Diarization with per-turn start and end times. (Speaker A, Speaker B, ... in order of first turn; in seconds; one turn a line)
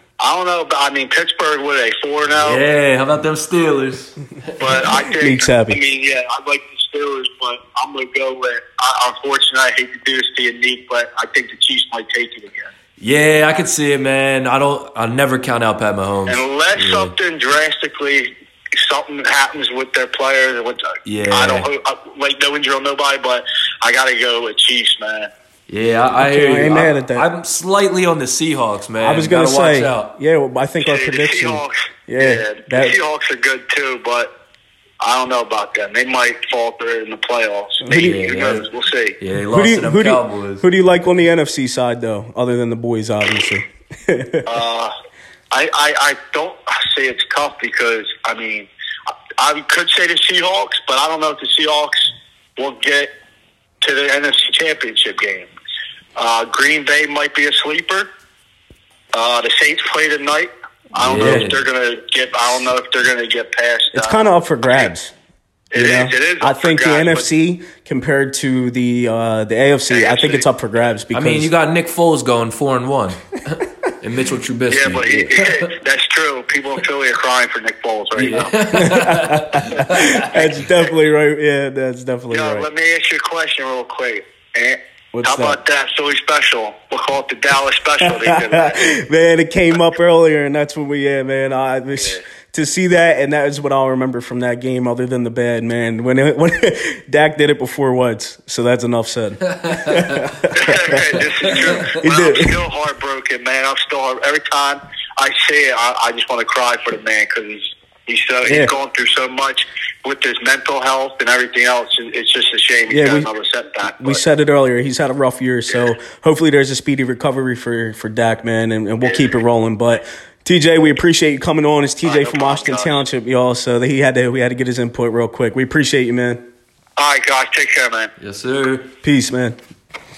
Speaker A: 0.2-2.6
Speaker B: 2.4-4.6
Speaker A: 4.6-12.7
Speaker C: 5.2-5.8
Speaker B: 13.0-17.1
Speaker A: 16.3-25.3
Speaker B: 21.1-21.7
Speaker B: 25.7-30.1
Speaker C: 26.2-27.3
Speaker C: 29.0-33.0
Speaker A: 30.8-34.3
Speaker A: 35.0-39.2
Speaker C: 37.8-38.2
Speaker B: 37.9-38.7
Speaker B: 39.2-40.6
Speaker C: 39.5-44.5
Speaker A: 44.5-44.9
Speaker A: 45.5-48.7
Speaker A: 49.4-53.1
Speaker A: 53.8-55.5
Speaker A: 56.2-58.1
Speaker A: 59.1-64.9
Speaker B: 61.0-61.6
Speaker C: 61.2-61.5
Speaker C: 63.9-65.1
Speaker A: 65.7-67.3
Speaker C: 65.7-71.5
Speaker A: 69.9-70.5
Speaker B: 71.1-75.7
Speaker A: 74.7-78.6
Speaker B: 78.2-80.3
Speaker C: 78.8-82.7
Speaker A: 82.3-88.8
Speaker C: 85.1-85.6
Speaker C: 88.1-102.6
Speaker B: 99.5-100.3
Speaker A: 100.5-114.2
Speaker B: 101.5-101.9
Speaker C: 108.5-108.7
Speaker C: 112.9-113.3
Speaker C: 114.0-126.4
Speaker A: 122.0-123.0
Speaker A: 127.0-128.1
Speaker B: 128.2-128.9
Speaker C: 129.0-129.6